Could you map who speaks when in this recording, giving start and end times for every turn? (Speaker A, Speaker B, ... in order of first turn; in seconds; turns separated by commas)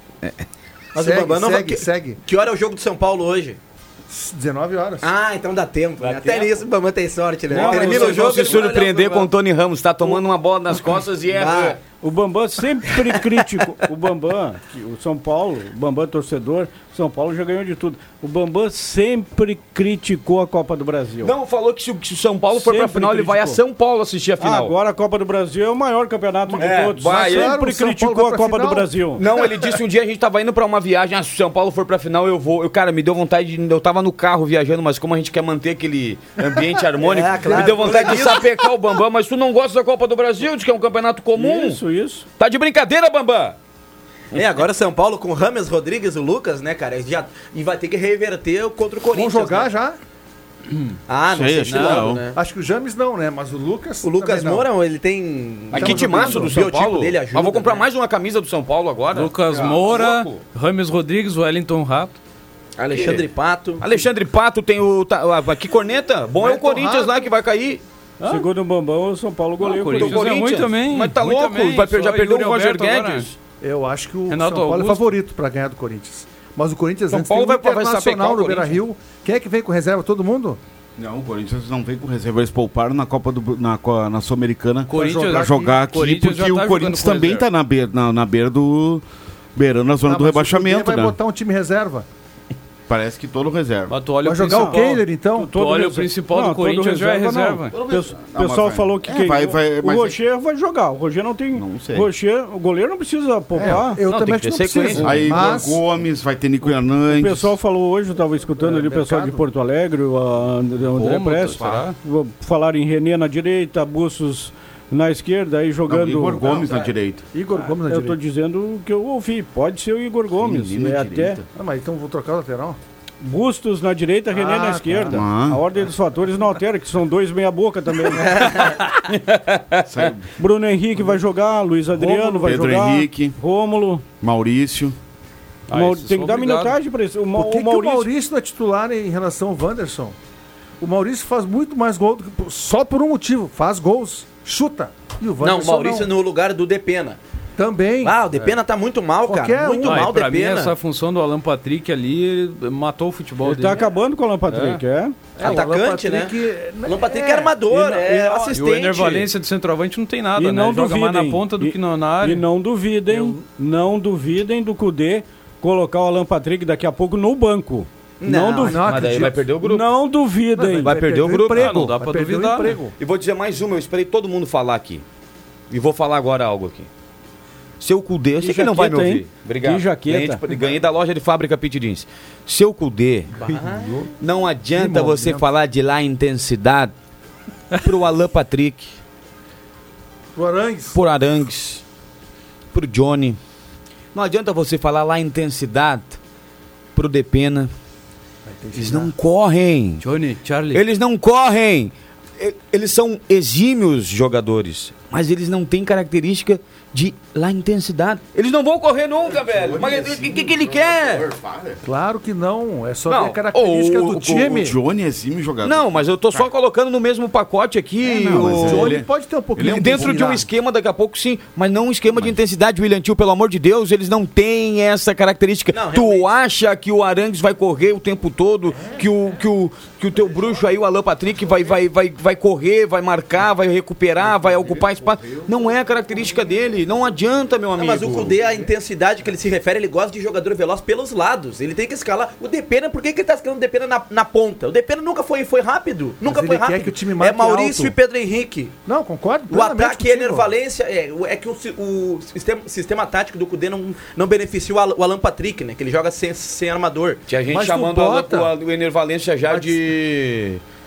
Speaker A: 0.9-2.2, Speaker B: 0.9-3.6, Speaker A: 4.1-5.1, Speaker B: 5.0-9.3, Speaker C: 6.0-6.6, Speaker D: 7.5-8.4, Speaker C: 7.5-11.8, Speaker E: 7.8-8.4, Speaker B: 11.3-11.8, Speaker D: 12.0-21.3, Speaker C: 21.2-24.7, Speaker D: 22.5-23.6, Speaker D: 24.4-29.2, Speaker A: 26.5-29.4, Speaker C: 26.6-27.6, Speaker C: 29.2-41.8, Speaker B: 37.0-38.5, Speaker A: 37.4-38.4, Speaker D: 41.3-42.2, Speaker C: 42.4-43.5, Speaker B: 44.3-49.7, Speaker A: 49.1-50.0, Speaker B: 51.1-52.4, Speaker F: 51.3-52.2, Speaker E: 51.7-52.2, Speaker A: 52.3-54.6, Speaker B: 54.0-57.8, Speaker C: 55.7-60.4, Speaker A: 55.7-56.6, Speaker E: 59.1-62.2, Speaker B: 62.8-64.1, Speaker C: 62.9-63.2, Speaker C: 63.8-67.8, Speaker A: 66.4-67.1, Speaker E: 68.2-68.5, Speaker D: 68.2-70.5, Speaker E: 69.6-73.3, Speaker C: 70.0-73.3, Speaker A: 73.6-80.6, Speaker E: 74.3-75.2, Speaker C: 77.1-78.8, Speaker F: 81.0-89.0, Speaker E: 84.9-87.5, Speaker A: 84.9-85.7, Speaker F: 89.5-91.2, Speaker A: 90.0-92.0, Speaker F: 92.9-94.0, Speaker E: 93.9-97.7, Speaker A: 94.2-95.5, Speaker D: 94.4-104.0, Speaker F: 97.7-100.2, Speaker F: 101.5-102.1, Speaker A: 103.5-105.8, Speaker C: 104.0-105.5, Speaker F: 105.0-107.5, Speaker D: 107.1-116.5, Speaker A: 108.6-109.4, Speaker E: 110.9-112.0, Speaker F: 115.9-117.2, Speaker A: 116.4-118.2, Speaker B: 116.5-116.9, Speaker D: 117.8-121.4, Speaker F: 120.4-121.4, Speaker A: 121.5-122.8, Speaker D: 123.2-128.3, Speaker A: 124.3-125.2, Speaker F: 125.1-125.6, Speaker B: 128.1-128.8, Speaker C: 128.6-129.9, Speaker F: 129.8-130.3, Speaker D: 130.4-134.0, Speaker F: 131.9-133.4, Speaker F: 134.2-134.9, Speaker E: 135.7-136.8, Speaker D: 135.7-138.1, Speaker A: 137.3-140.2, Speaker A: 140.8-146.1, Speaker B: 145.4-147.2, Speaker A: 147.6-148.2, Speaker B: 148.0-150.7, Speaker A: 149.2-150.1, Speaker E: 149.8-153.9, Speaker D: 153.4-155.2, Speaker E: 154.5-154.8, Speaker A: 155.3-157.8, Speaker B: 155.4-159.3, Speaker E: 158.5-162.4, Speaker D: 160.3-168.8, Speaker B: 168.2-168.8, Speaker A: 168.5-169.5, Speaker C: 168.8-169.9, Speaker D: 169.6-170.9, Speaker A: 170.6-172.9, Speaker C: 170.8-171.9, Speaker E: 171.5-172.8, Speaker C: 173.0-175.0, Speaker C: 175.7-176.9, Speaker C: 177.8-183.6, Speaker D: 178.4-180.4, Speaker B: 183.4-184.0, Speaker A: 183.8-184.1, Speaker C: 184.2-186.9, Speaker A: 184.7-185.5, Speaker C: 187.8-188.9, Speaker A: 190.3-191.0, Speaker C: 190.9-191.8, Speaker C: 192.7-193.4, Speaker C: 194.1-196.2, Speaker C: 196.9-197.7, Speaker A: 198.4-199.1, Speaker C: 198.7-200.0, Speaker E: 200.0-200.8, Speaker C: 200.7-211.2, Speaker F: 209.2-211.8, Speaker A: 211.8-214.8, Speaker C: 213.1-214.4, Speaker F: 214.4-216.4, Speaker C: 215.6-219.0, Speaker F: 218.0-220.4, Speaker A: 218.1-220.4, Speaker C: 219.6-238.3, Speaker B: 225.7-226.3, Speaker F: 234.2-235.5, Speaker B: 237.8-248.8, Speaker A: 238.4-238.7, Speaker A: 246.2-247.9, Speaker A: 248.8-250.5, Speaker B: 249.5-257.2, Speaker C: 257.3-260.6, Speaker A: 257.5-258.5, Speaker A: 259.5-259.8